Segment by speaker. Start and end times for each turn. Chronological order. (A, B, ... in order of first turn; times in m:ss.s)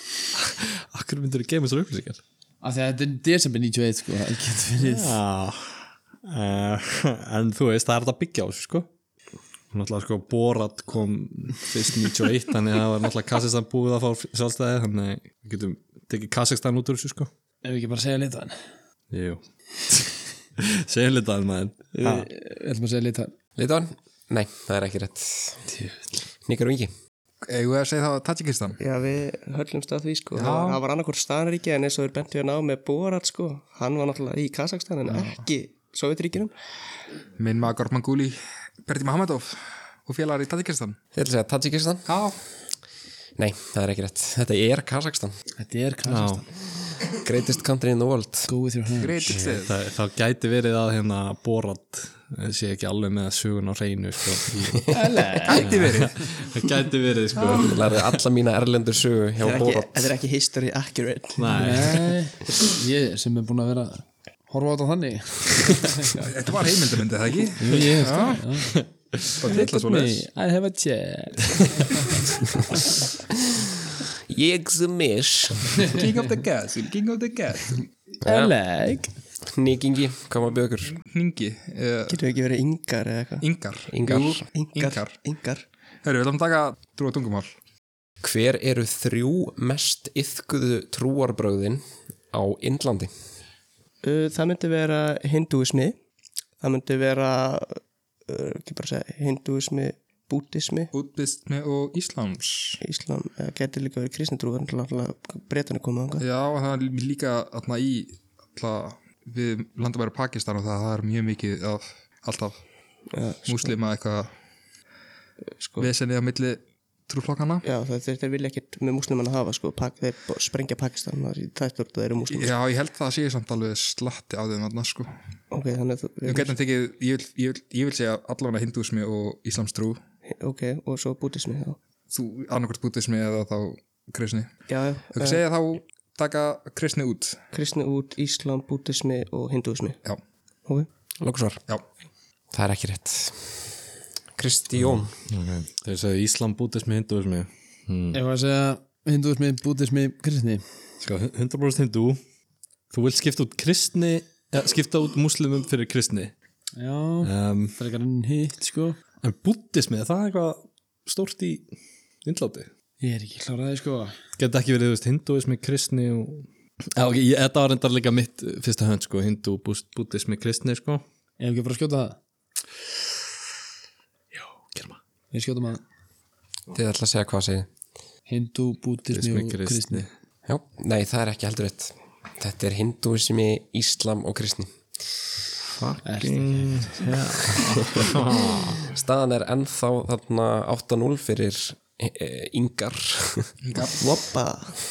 0:00.3-0:02.2 A
0:02.6-0:05.2 B
0:04.8-0:08.9 A
0:09.7-0:17.3 A
0:17.6-0:18.6 B
0:19.1-0:22.3 A
0:22.0-0:23.3 B
0:23.6-0:25.7 C
0:25.7-0:26.2 A
0:26.4-0:26.9 C
0:27.4-0:28.8 D
0:28.8-0:36.5 E
0:30.3-0:30.8 D
0:37.4-0:41.0 D
0:41.1-0:42.1 C
0:42.0-0:42.4 D
0:43.4-0:45.4 C
0:45.6-0:46.5 B
0:46.0-0:46.4 A
0:47.1-0:48.5 C
0:48.5-0:49.4 B
0:49.0-0:49.7 D
0:49.3-0:54.9 A
0:54.9-0:55.8 B
0:55.4-0:56.2 D
0:55.6-0:58.1 A
0:57.5-1:00.1 C
0:59.4-1:01.6 E
1:01.4-1:02.1 A
1:01.5-1:06.2 B
1:06.1-1:08.4 D
1:07.6-1:08.8 B
1:08.6-1:09.4 A
1:09.4-1:10.3 D
1:09.4-1:12.2 B
1:14.3-1:16.0 C
1:15.8-1:17.8 D
1:18.2-1:19.1 B
1:18.2-1:18.5 C
1:19.5-1:21.0 C
1:21.0-1:22.2 D
1:22.1-1:23.4 E
1:23.4-1:25.2 D
1:23.9-1:24.4 C
1:24.5-1:25.6 E
1:26.0-1:27.5 D
1:28.2-1:33.1 C
1:34.0-1:35.9 E
1:36.6-1:40.9 E
1:40.9-1:42.8 D
1:42.8-1:46.2 E
1:46.2-1:52.6 D
1:53.1-1:53.7 E
1:53.4-1:54.3 D
1:55.6-1:55.9 E
1:55.8-1:57.6 D
1:57.6-2:02.5 E
2:02.3-2:05.1 D
2:05.5-2:06.5 E
2:06.2-2:10.0 D
2:10.3-2:11.8 E
2:12.1-2:14.5 D
2:14.7-2:15.4 E
2:15.1-2:17.4 D
2:17.5-2:20.0 E
2:21.2-2:21.6 C
2:22.5-2:23.7 C
2:24.4-2:25.1 C
2:24.8-2:28.2 A
2:28.1-2:30.6 B
2:31.0-2:32.2 A
2:32.9-2:36.3 A
2:36.8-2:39.0 B
2:37.2-2:37.8 A
2:39.2-2:41.7 A
2:42.2-2:42.7 A
2:43.0-2:44.2 B
2:44.4-2:51.0 A
2:51.4-2:52.2 B
2:54.3-2:55.0 A
2:55.3-2:55.8 B
2:56.7-2:57.7 C
2:58.3-3:00.1 B
2:59.1-3:00.1 A
3:00.4-3:04.7 C
3:05.7-3:08.9 A
3:06.0-3:08.0 B
3:08.9-3:13.5 C
3:13.6-3:14.0 D
3:13.9-3:14.8 E